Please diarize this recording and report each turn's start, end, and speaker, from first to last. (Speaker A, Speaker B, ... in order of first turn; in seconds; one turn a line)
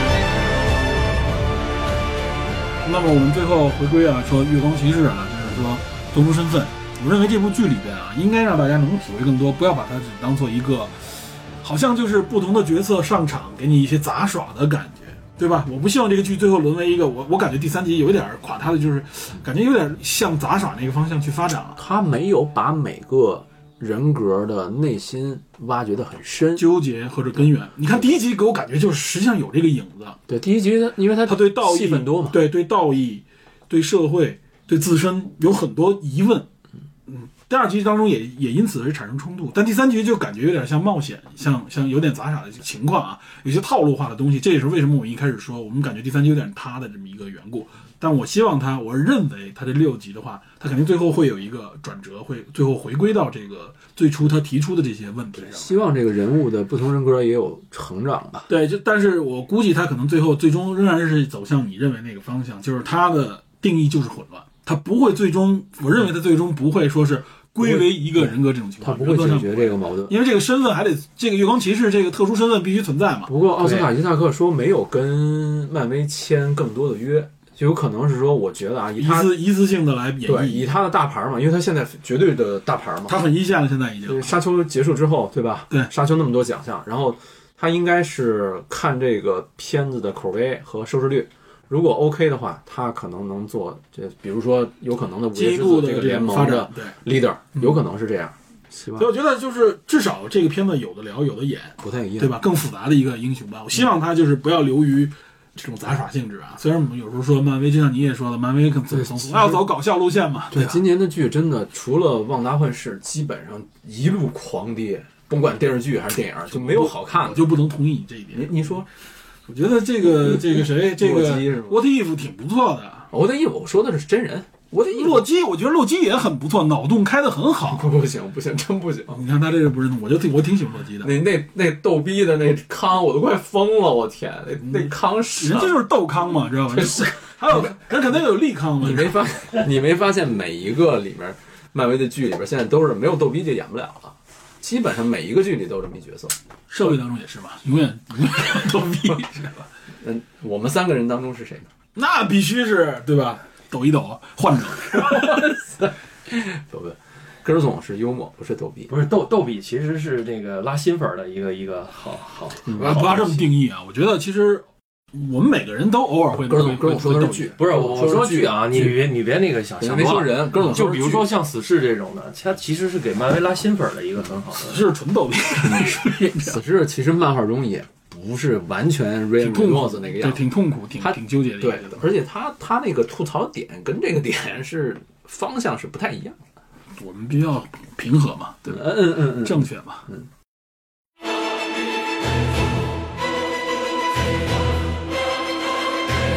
Speaker A: 2.8-21.8
Speaker B: 21.8-26.6
Speaker A: 26.6-30.2
Speaker B: 30.3-32.4
Speaker A: 31.2-36.5
Speaker A: 37.1-55.8
Speaker B: 55.4-58.5
Speaker A: 58.5-73.3
Speaker B: 67.6-70.1
Speaker B: 73.3-79.4
Speaker C: 73.6-73.9
Speaker A: 79.0-80.7
Speaker B: 80.2-83.2
Speaker A: 83.1-84.3
Speaker B: 84.0-99.1
Speaker A: 95.3-97.0
Speaker A: 99.0-110.8
Speaker B: 101.8-102.4
Speaker B: 108.9-109.7
Speaker B: 110.5-117.5
Speaker A: 116.5-118.8
Speaker B: 118.3-118.8
Speaker A: 119.5-123.1
Speaker B: 120.0-121.8
Speaker B: 123.1-125.2
Speaker A: 124.9-127.9
Speaker B: 127.7-129.2
Speaker A: 129.1-131.1
Speaker B: 131.0-135.8
Speaker A: 134.6-139.3
Speaker B: 136.7-137.8
Speaker B: 138.8-146.3
Speaker A: 146.7-149.6
Speaker B: 150.0-151.7
Speaker A: 151.9-155.4
Speaker B: 154.9-158.9
Speaker C: 158.9-163.5
Speaker B: 162.7-163.0
Speaker A: 162.7-167.5
Speaker B: 166.5-169.0
Speaker C: 167.0-174.9
Speaker B: 169.8-171.3
Speaker A: 174.6-176.6
Speaker B: 175.6-180.4
Speaker A: 179.4-182.1
Speaker B: 181.0-186.4
Speaker A: 186.9-190.1
Speaker B: 188.7-190.2